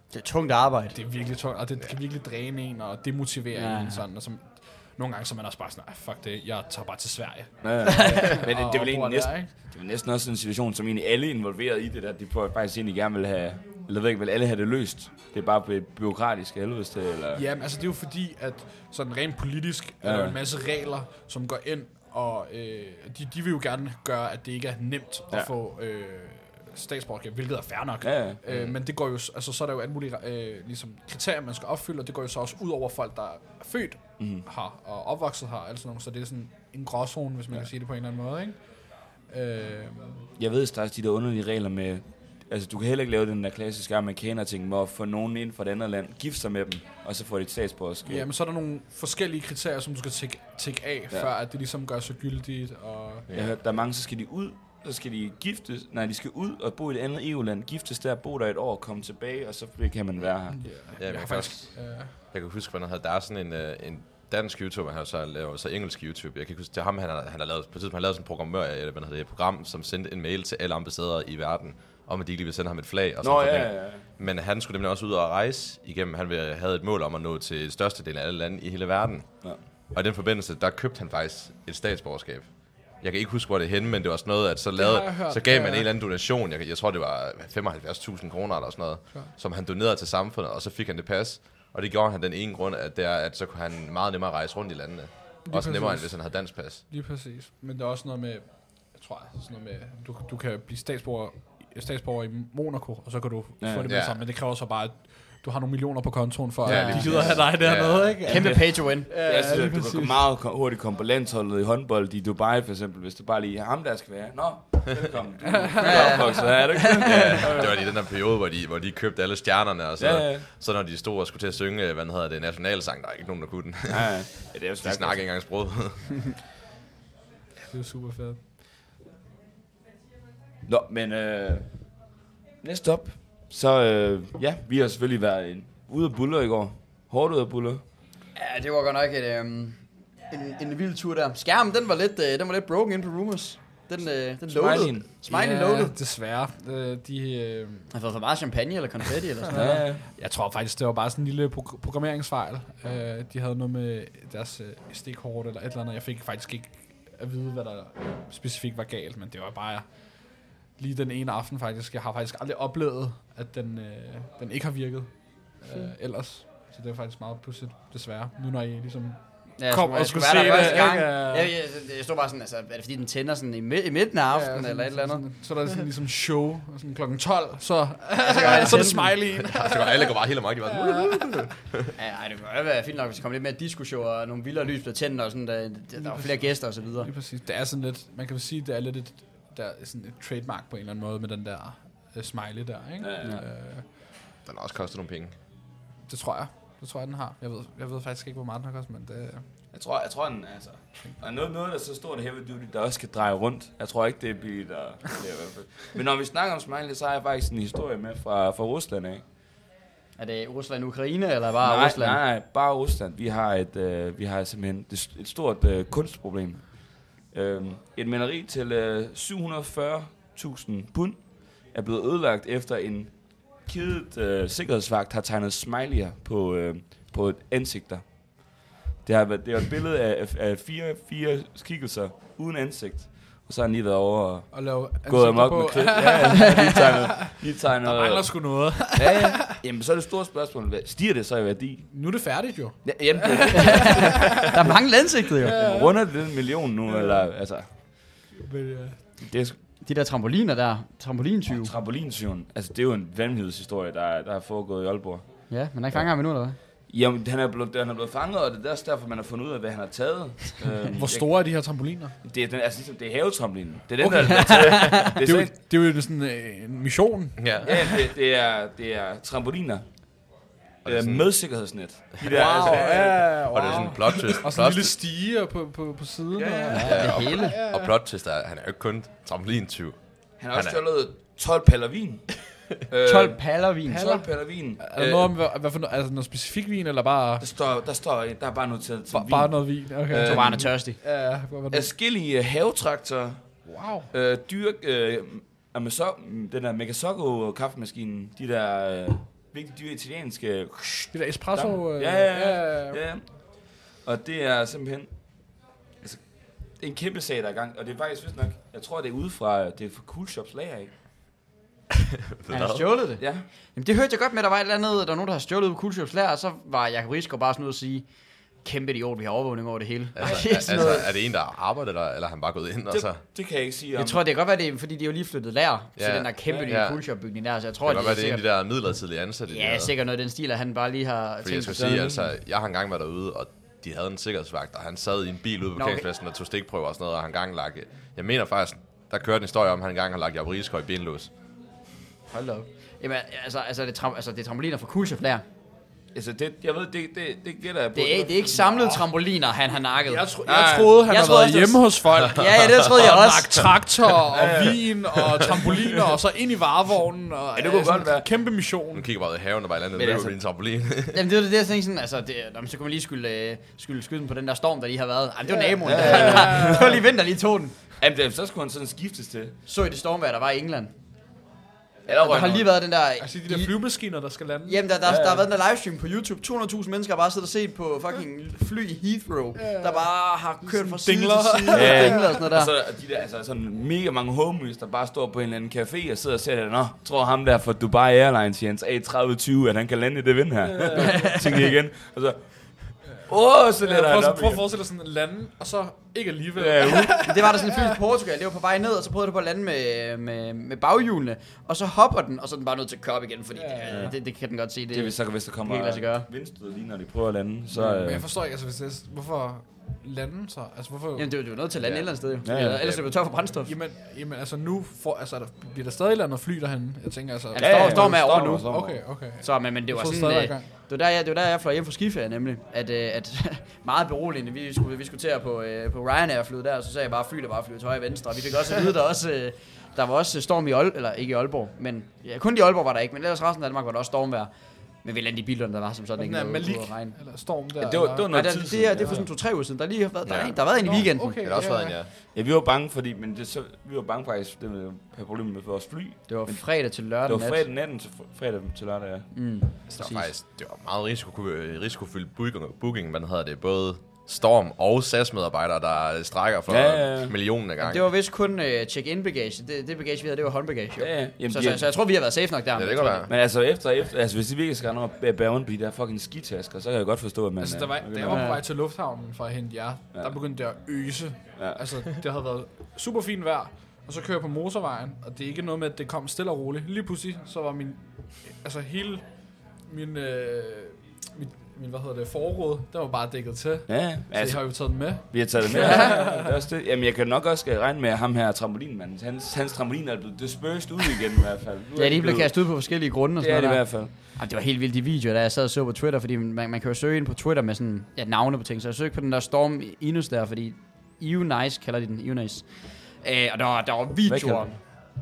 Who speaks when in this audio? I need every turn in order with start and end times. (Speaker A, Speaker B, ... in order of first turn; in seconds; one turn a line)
Speaker A: 0.1-1.0
Speaker B: 0.9-9.5
Speaker A: 3.5-4.0
Speaker C: 7.6-17.4
Speaker A: 7.9-8.3
Speaker B: 17.3-40.3
Speaker C: 20.0-20.4
Speaker C: 28.0-28.4
Speaker C: 34.2-34.5
Speaker C: 40.4-48.3
Speaker B: 48.0-53.3
Speaker D: 53.3-53.6
Speaker C: 53.3-60.8
Speaker B: 60.5-62.1
Speaker D: 61.0-96.8
Speaker C: 73.2-74.0
Speaker B: 84.8-85.9
Speaker B: 95.5-110.2
Speaker C: 103.6-103.9
Speaker D: 103.8-104.2
Speaker D: 106.6-108.2
Speaker A: 106.7-107.3
Speaker C: 106.9-107.5
Speaker A: 108.2-109.1
Speaker C: 108.3-117.8
Speaker B: 115.7-116.3
Speaker A: 115.8-117.4
Speaker D: 117.0-126.3
Speaker C: 120.0-120.5
Speaker C: 123.9-125.7
Speaker B: 127.7-128.4
Speaker C: 130.7-137.8
Speaker A: 138.3-145.9
Speaker C: 144.5-145.1
Speaker B: 145.3-147.9
Speaker A: 147.9-149.8
Speaker B: 149.5-171.5
Speaker C: 149.5-150.0
Speaker A: 169.6-175.2
Speaker B: 174.3-181.5
Speaker A: 178.2-179.2
Speaker D: 179.3-181.9
Speaker A: 182.0-187.1
Speaker B: 186.0-193.8
Speaker C: 193.0-193.4
Speaker D: 194.4-195.3
Speaker B: 196.1-199.5
Speaker C: 199.7-209.2
Speaker A: 210.2-212.2
Speaker C: 211.6-245.0
Speaker B: 234.5-239.5
Speaker B: 241.9-247.7
Speaker A: 243.6-245.6
Speaker C: 245.5-247.7
Speaker B: 248.4-249.2
Speaker C: 249.2-249.6
Speaker A: 249.8-251.7
Speaker C: 251.5-261.5
Speaker A: 255.5-256.6
Speaker B: 260.9-262.1
Speaker C: 262.2-265.5
Speaker B: 264.0-268.0
Speaker A: 264.3-265.1
Speaker D: 267.4-267.7
Speaker C: 267.6-270.3
Speaker D: 270.8-271.4
Speaker C: 270.9-273.4
Speaker B: 272.2-277.9
Speaker D: 273.5-274.9
Speaker C: 276.4-277.1
Speaker A: 276.7-277.6
Speaker D: 276.8-280.8
Speaker C: 280.4-285.3
Speaker A: 283.0-284.1
Speaker B: 283.9-287.5
Speaker C: 287.4-290.8
Speaker B: 289.1-291.9
Speaker A: 290.2-291.0
Speaker C: 291.7-311.0
Speaker B: 293.6-294.1
Speaker B: 301.1-303.0
Speaker D: 312.4-312.9
Speaker A: 312.5-321.1
Speaker C: 313.2-313.5
Speaker D: 320.1-323.2
Speaker C: 320.2-321.1
Speaker C: 322.9-324.2
Speaker A: 323.9-328.4
Speaker D: 326.0-327.0
Speaker D: 327.8-329.9
Speaker A: 329.5-331.8
Speaker D: 331.4-341.3
Speaker C: 331.7-332.3
Speaker A: 335.8-336.1
Speaker A: 342.3-345.4
Speaker C: 346.1-348.8
Speaker A: 347.9-353.6
Speaker B: 348.7-349.0
Speaker B: 350.1-359.1
Speaker C: 350.5-350.9
Speaker D: 352.2-352.7
Speaker C: 354.3-354.9
Speaker C: 357.6-358.2
Speaker D: 358.9-361.2
Speaker C: 359.9-360.4
Speaker A: 361.1-367.8
Speaker B: 365.5-367.0
Speaker C: 365.8-367.0
Speaker C: 368.0-369.6
Speaker A: 369.7-370.9
Speaker C: 372.1-372.7
Speaker A: 372.1-374.1
Speaker B: 373.2-374.8
Speaker A: 374.7-382.7
Speaker C: 375.1-375.5
Speaker B: 379.6-382.4
Speaker C: 381.7-394.6
Speaker B: 390.6-391.3
Speaker A: 390.9-391.6
Speaker B: 393.6-397.8
Speaker C: 396.6-397.2
Speaker A: 397.3-406.3
Speaker B: 403.5-404.1
Speaker C: 404.9-408.3
Speaker B: 407.7-411.3
Speaker A: 411.1-413.7
Speaker D: 411.8-413.1
Speaker C: 412.4-412.8
Speaker B: 413.6-420.7
Speaker A: 417.5-437.2
Speaker C: 417.6-419.0
Speaker B: 436.2-439.3
Speaker C: 437.8-439.3
Speaker A: 438.3-441.7
Speaker D: 440.2-442.1
Speaker B: 440.8-442.0
Speaker C: 442.1-449.3
Speaker A: 446.3-447.7
Speaker A: 449.3-450.3
Speaker D: 449.9-458.1
Speaker C: 456.7-457.4
Speaker A: 457.8-463.3
Speaker C: 461.0-461.8
Speaker D: 462.8-463.3
Speaker C: 463.3-468.5
Speaker B: 467.6-486.6
Speaker A: 468.3-468.6
Speaker C: 483.9-492.8
Speaker A: 485.7-486.1
Speaker A: 492.0-504.8
Speaker C: 493.4-494.1
Speaker C: 504.3-504.8